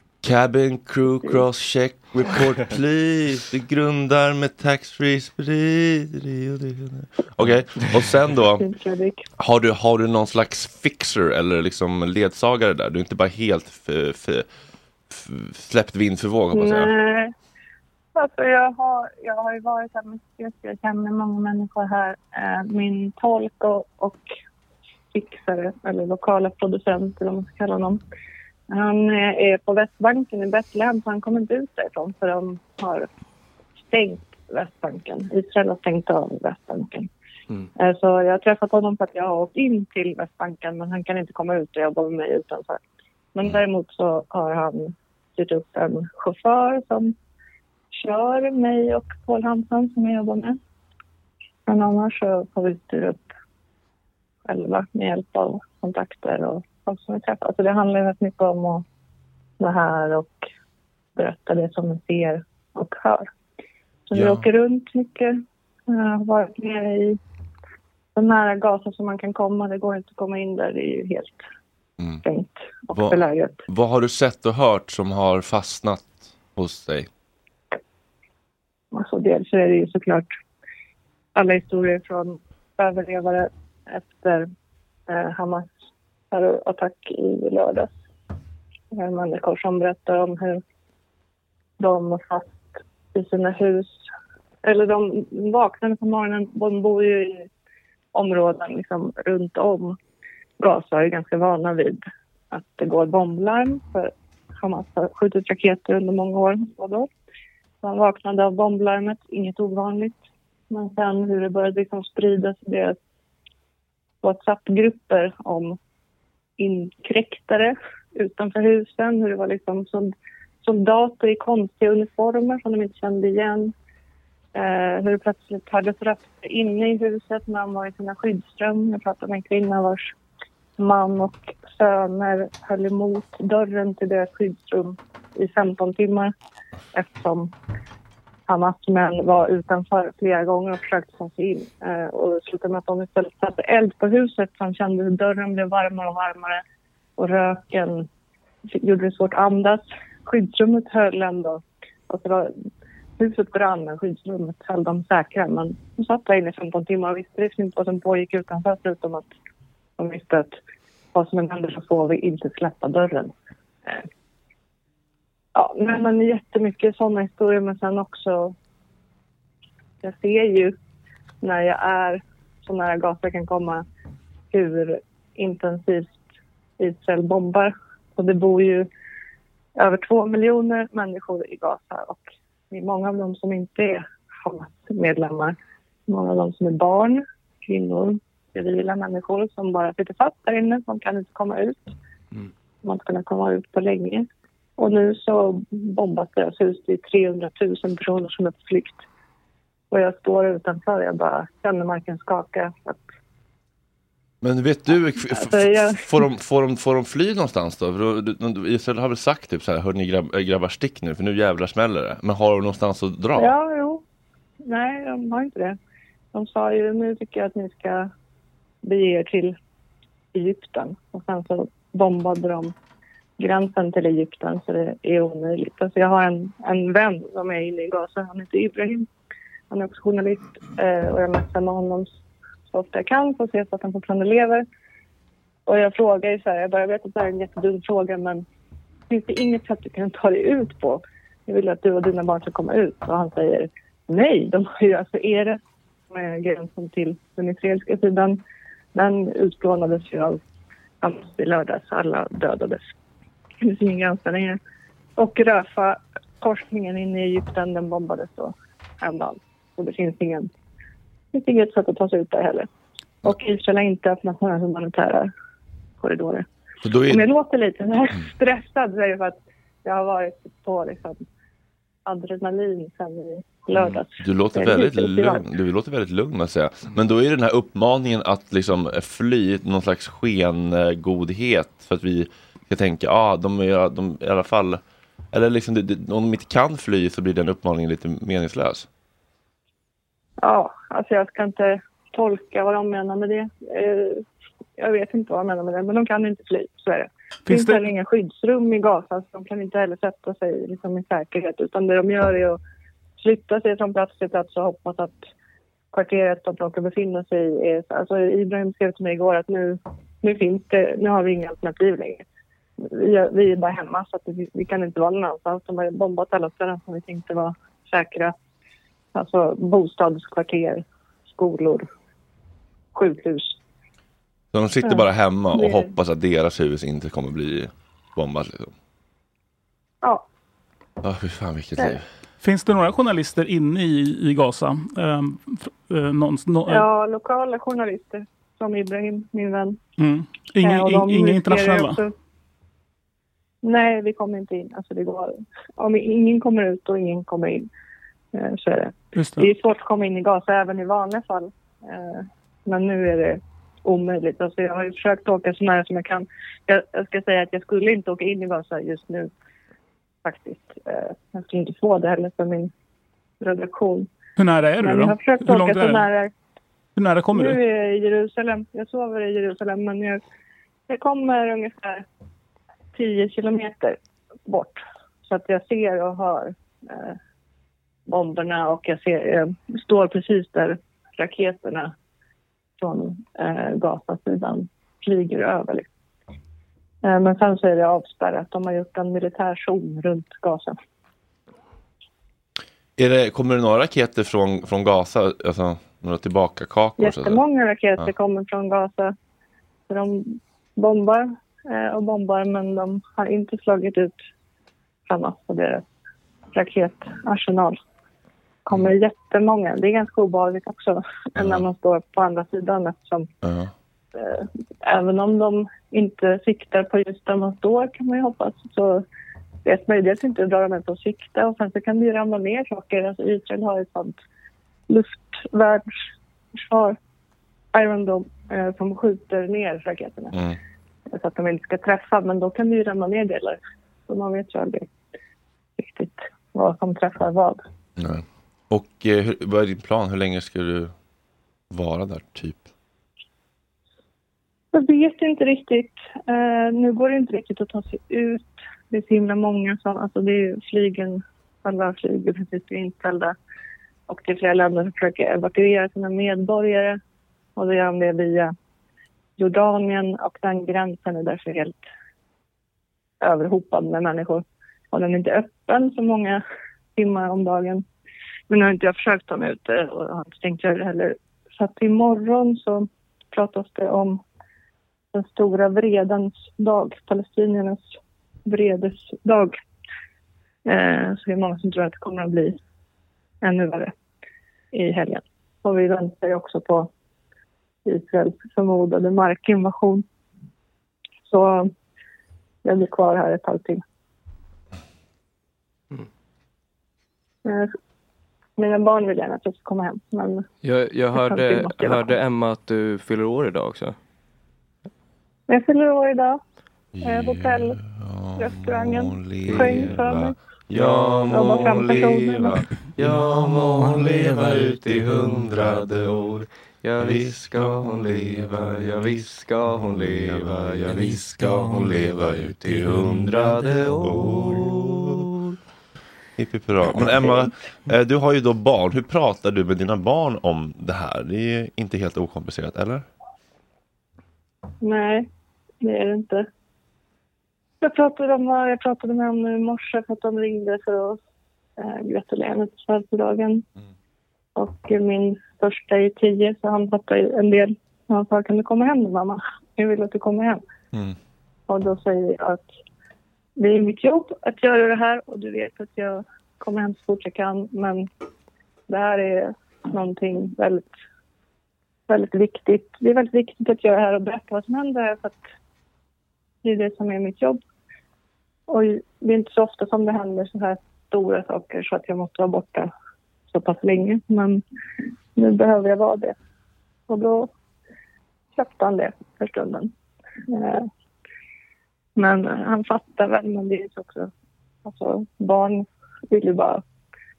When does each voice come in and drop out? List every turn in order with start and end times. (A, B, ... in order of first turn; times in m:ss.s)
0:00.2-0:08.7 A
0:08.5-0:09.2 B
0:09.4-0:14.5 A
0:15.1-0:16.9 A
0:16.5-0:17.3 B
0:18.1-0:24.2 B
0:25.1-0:28.0 B
0:28.7-0:33.1 B
0:33.9-0:37.1 B
0:37.8-0:42.8 B
0:43.3-0:47.1 B
0:47.9-0:50.6 B
0:51.7-0:53.2 B
0:54.5-0:58.8 B
0:59.6-1:00.4 B
1:01.2-1:03.3 B
1:04.1-1:07.2 B
1:04.1-1:04.5 A
1:08.1-1:11.4 B
1:12.2-1:13.6 B
1:12.9-1:17.1 A
1:18.9-1:20.3 B
1:21.3-1:24.4 B
1:25.1-1:25.7 B
1:26.3-1:27.9 B
1:28.9-1:30.6 B
1:31.8-1:34.0 B
1:34.6-1:37.5 B
1:38.1-1:40.0 B
1:40.6-1:47.1 B
1:47.8-1:50.2 B
1:50.7-1:53.0 B
1:54.2-1:55.8 B
1:56.6-2:00.1 B
2:00.6-2:03.7 B
2:04.5-2:10.1 B
2:10.8-2:16.3 B
2:16.9-2:17.5 B
2:18.5-2:26.6 B
2:27.2-2:28.1 B
2:28.7-2:32.5 B
2:33.2-2:39.2 B
2:40.0-2:40.6 B
2:41.1-2:43.3 B
2:45.5-2:48.5 B
2:50.0-2:50.7 B
2:51.4-2:53.8 B
2:54.5-2:56.2 B
2:56.8-2:58.9 B
2:59.8-3:05.5 B
3:06.1-3:11.8 B
3:12.8-3:14.2 B
3:14.8-3:19.0 B
3:19.9-3:23.0 B
3:24.4-3:33.5 A
3:25.3-3:26.1 B
3:33.4-3:34.0 B
3:34.6-3:35.8 B
3:36.3-3:38.1 B
3:38.8-3:39.6 B
3:40.3-3:42.7 B
3:43.4-3:49.1 B
3:49.7-3:52.1 B
3:52.7-3:54.6 B
3:55.6-3:58.4 B
3:59.1-4:05.6 B
4:06.1-4:08.4 B
4:08.9-4:10.4 B
4:11.0-4:12.9 B
4:13.6-4:14.6 B
4:15.2-4:20.5 B
4:21.3-4:22.7 B
4:23.2-4:25.3 B
4:26.0-4:26.4 B
4:26.8-4:27.2 A
4:27.1-4:31.2 B
4:32.0-4:35.4 B
4:33.7-4:48.9 A
4:50.4-4:54.2 B
4:54.8-5:02.6 B
4:57.4-4:57.8 C
5:03.2-5:05.2 B
5:05.9-5:12.2 B
5:12.8-5:18.3 B
5:19.1-5:21.9 B
5:22.9-5:23.5 B
5:24.5-5:28.7 A
5:24.8-5:25.9 B
5:31.0-5:32.0 A
5:32.4-5:36.8 C
5:36.7-5:39.8 B
5:40.0-5:42.0 C
5:40.6-5:42.1 B
5:43.6-5:47.7 B
5:48.3-5:59.3 B
5:49.2-5:49.5 C
6:00.2-6:02.7 B
6:03.4-6:04.1 B
6:04.4-6:06.0 C
6:04.8-6:06.3 B
6:07.0-6:07.6 C
6:07.3-6:10.2 B
6:10.9-6:12.0 B
6:12.9-6:17.2 B
6:18.1-6:21.9 B
6:22.8-6:25.8 B
6:27.0-6:30.7 B
6:33.0-6:37.4 A
6:37.0-6:39.1 B
6:39.9-6:44.1 B
6:45.1-6:45.8 B
6:46.5-6:47.8 B
6:48.7-6:53.3 B
6:51.4-6:51.6 A
6:53.4-6:53.7 A
6:54.2-6:59.0 B
6:59.6-7:04.1 B
7:04.9-7:05.9 B
7:06.6-7:07.0 B
7:07.7-7:10.4 B
7:11.1-7:14.9 B
7:15.8-7:17.6 B
7:18.0-7:20.9 A
7:21.7-7:22.6 A
7:24.7-7:33.3 B
7:34.1-7:37.0 B
7:37.6-7:38.5 B
7:39.4-7:41.8 B
7:43.2-7:46.4 B
7:47.0-7:47.8 B
7:48.5-7:54.2 B
7:55.1-7:57.9 B
7:58.4-7:59.6 B
8:00.6-8:02.6 B
8:03.4-8:03.9 B
8:04.7-8:06.9 B
8:07.8-8:10.0 B
8:11.3-8:11.7 B
8:12.6-8:13.8 B
8:17.4-8:17.7 B
8:18.6-8:20.4 B
8:20.6-8:24.0 D
8:21.1-8:22.2 B
8:25.5-8:26.4 B
8:26.9-8:32.6 A
8:27.0-8:27.8 B
8:28.4-8:30.3 B
8:29.5-8:29.9 D
8:30.7-8:31.9 D
8:31.3-8:32.6 B
8:33.0-8:44.6 D
8:35.0-8:35.7 A
8:37.0-8:38.8 A
8:39.7-8:45.3 A
8:46.4-8:53.0 A
8:54.8-8:55.3 B
8:55.8-8:56.5 B
8:57.8-9:01.2 B
9:01.8-9:03.6 B
9:04.6-9:10.6 B
9:11.7-9:12.7 B
9:13.6-9:18.1 B
9:18.9-9:20.9 B
9:22.1-9:25.4 B
9:26.6-9:27.6 B
9:28.7-9:32.9 B
9:33.5-9:34.6 B
9:35.4-9:36.3 B
9:37.1-9:37.5 B
9:38.6-9:39.9 B
9:40.5-9:40.9 B
9:42.2-9:44.3 B
9:44.8-9:46.8 B